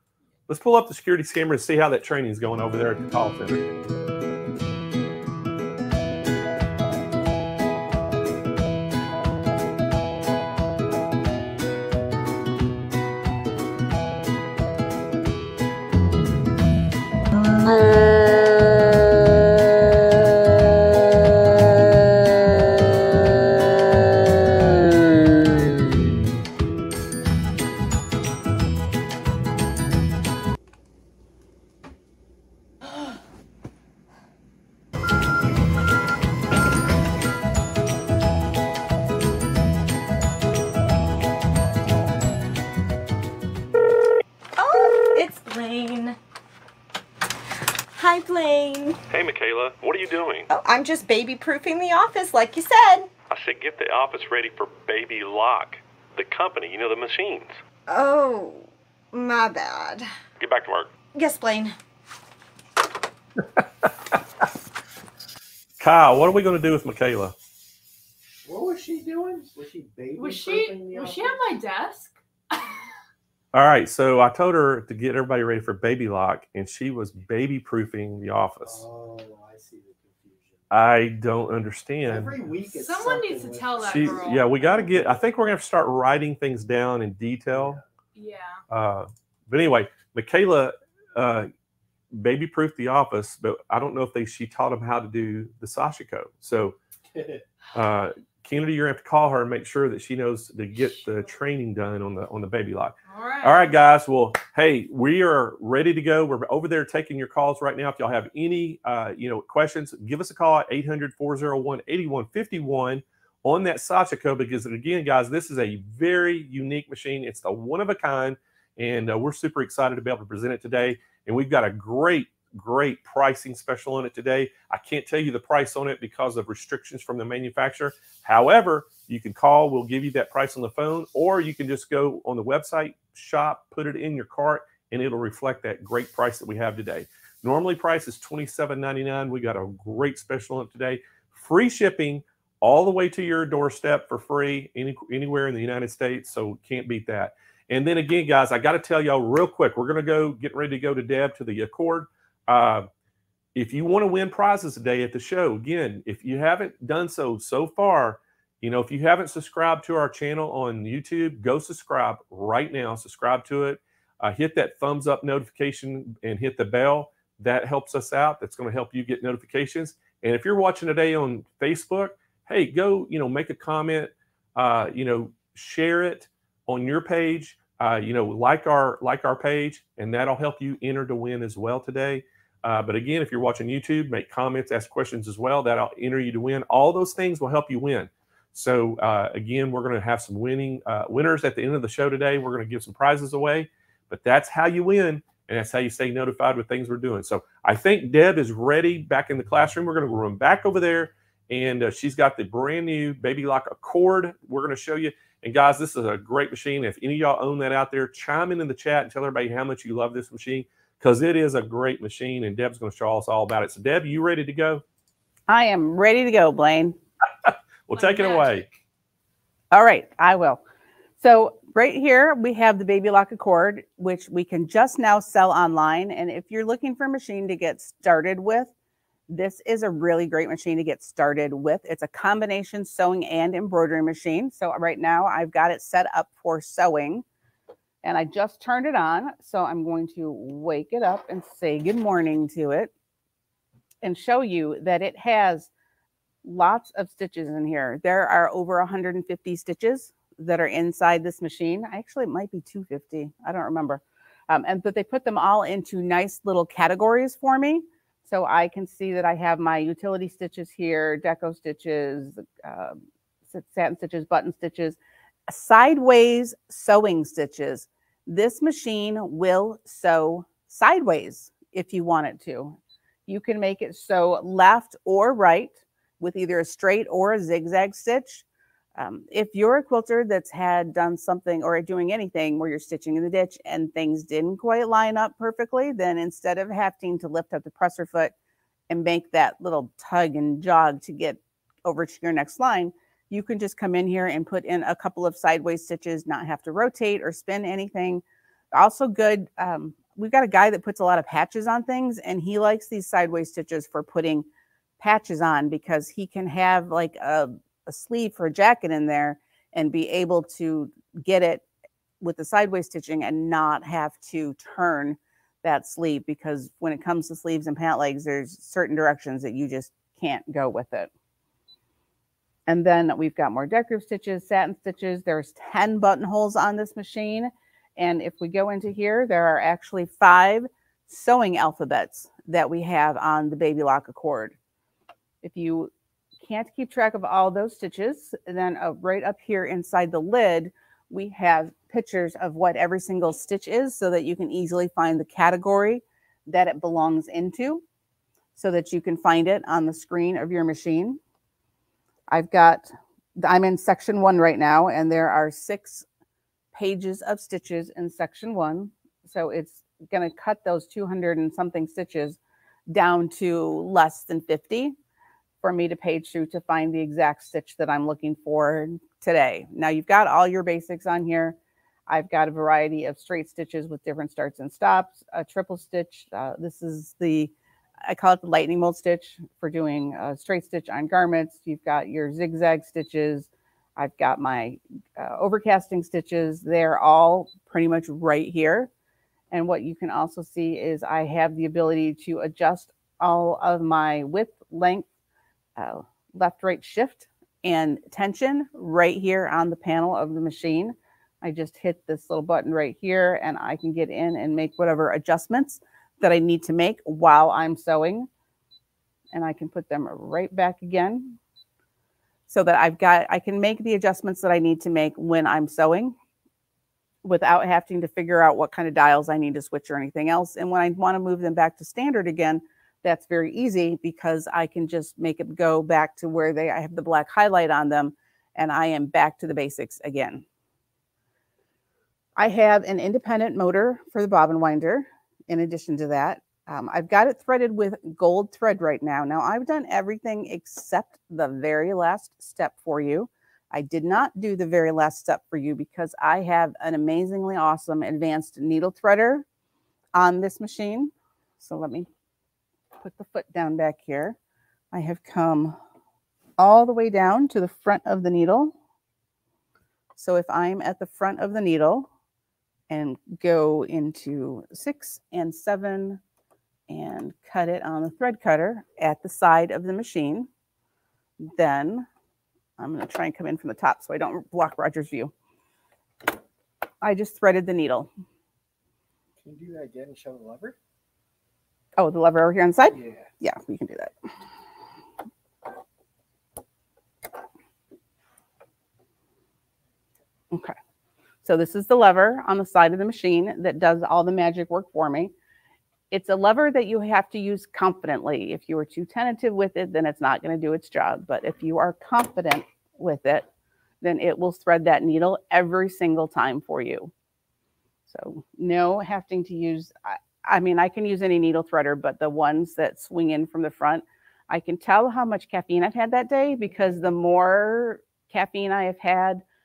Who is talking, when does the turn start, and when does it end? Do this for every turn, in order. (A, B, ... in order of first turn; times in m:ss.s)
0:00.5-0:03.6 A
0:44.6-0:46.2 B
0:47.9-0:49.0 B
0:49.1-0:50.5 A
0:50.5-0:53.1 B
0:53.3-0:57.6 A
0:57.9-1:00.1 B
1:00.4-1:00.9 A
1:01.1-1:01.7 B
1:03.6-1:03.9 A
1:05.8-1:07.4 A
1:08.4-1:11.4 C
1:10.2-1:12.8 D
1:13.5-1:18.8 A
1:18.6-1:20.6 C
1:20.7-1:22.4 A
1:22.1-1:25.2 C
1:22.7-1:24.5 D
1:23.8-1:27.8 A
1:27.5-1:27.8 C
1:28.2-1:28.6 D
1:28.7-1:31.5 A
1:32.1-1:36.8 A
1:37.2-1:37.4 C
1:37.7-2:32.9 A
1:43.1-1:43.7 D
2:33.6-3:34.8 A
3:35.5-3:37.0 E
3:37.5-3:38.6 A
3:37.9-3:38.8 D
3:39.7-3:40.6 E
3:41.2-3:48.7 E
3:49.3-3:57.2 E
3:58.0-4:02.9 E
4:04.0-4:05.7 E
4:06.4-4:23.0 E
4:23.5-4:25.0 E
4:25.5-4:38.4 E
4:39.0-4:48.3 E
4:48.9-5:04.5 E
5:05.0-5:11.6 E
5:12.2-5:21.1 E
5:22.7-5:34.6 E
5:35.4-5:35.9 E
5:36.4-5:47.8 E
5:48.6-5:51.2 E
5:52.3-5:56.1 E
5:56.7-6:05.0 E
6:05.6-6:11.6 E
6:12.1-6:17.5 E
6:18.0-6:28.9 E
6:29.5-6:35.1 E
6:35.8-6:48.3 E
6:49.3-6:51.4 E
6:52.5-6:56.2 E
6:57.2-7:10.4 E
7:12.4-7:29.5 E
7:30.1-7:32.1 E
7:33.0-7:34.4 E
7:34.9-7:35.8 E
7:36.6-7:38.7 E
7:40.2-7:42.1 E
7:42.9-7:46.2 E
7:46.9-7:50.5 E
7:51.4-7:52.1 E
7:52.8-7:55.3 E
7:57.0-7:58.1 E
7:59.4-8:00.8 C
8:02.0-8:04.1 E
8:02.9-8:03.3 C
8:11.4-8:15.3 E
8:16.1-8:23.5 E
8:24.0-8:27.1 E
8:28.1-8:39.4 E